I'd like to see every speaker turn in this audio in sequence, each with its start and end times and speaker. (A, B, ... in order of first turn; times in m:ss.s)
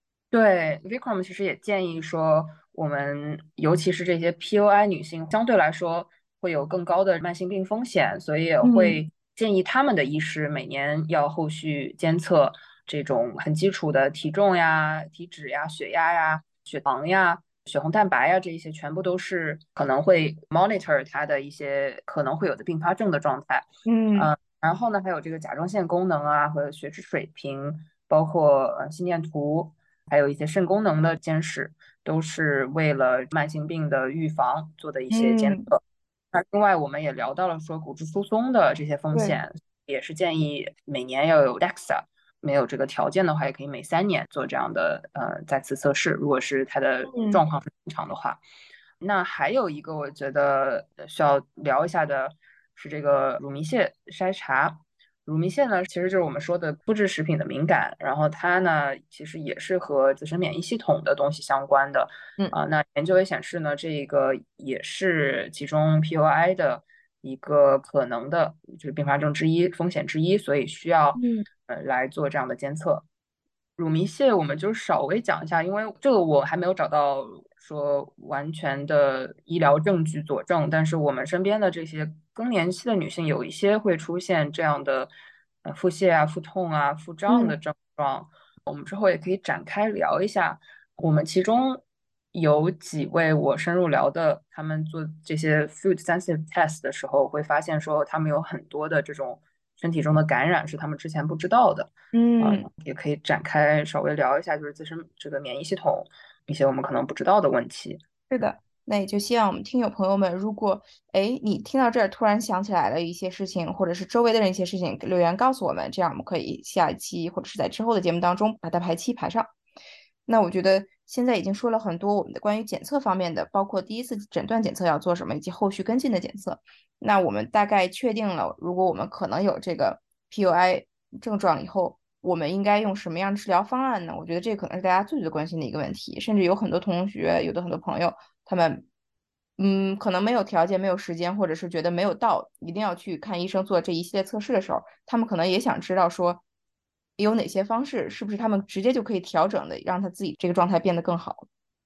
0:00.3-0:35.8 A
0:08.6-0:09.0 B
0:23.8-0:24.3 B
0:35.1-0:35.7 B
0:36.3-0:48.4 A
0:47.1-0:47.4 B
0:49.0-1:13.0 A
1:11.2-1:11.5 B
1:13.8-1:25.1 A
1:25.6-1:48.0 A
1:27.3-1:27.6 B
1:42.1-1:42.7 B
1:48.3-1:59.5 B
2:00.3-2:18.8 B
2:19.6-2:26.4 B
2:27.2-2:31.5 B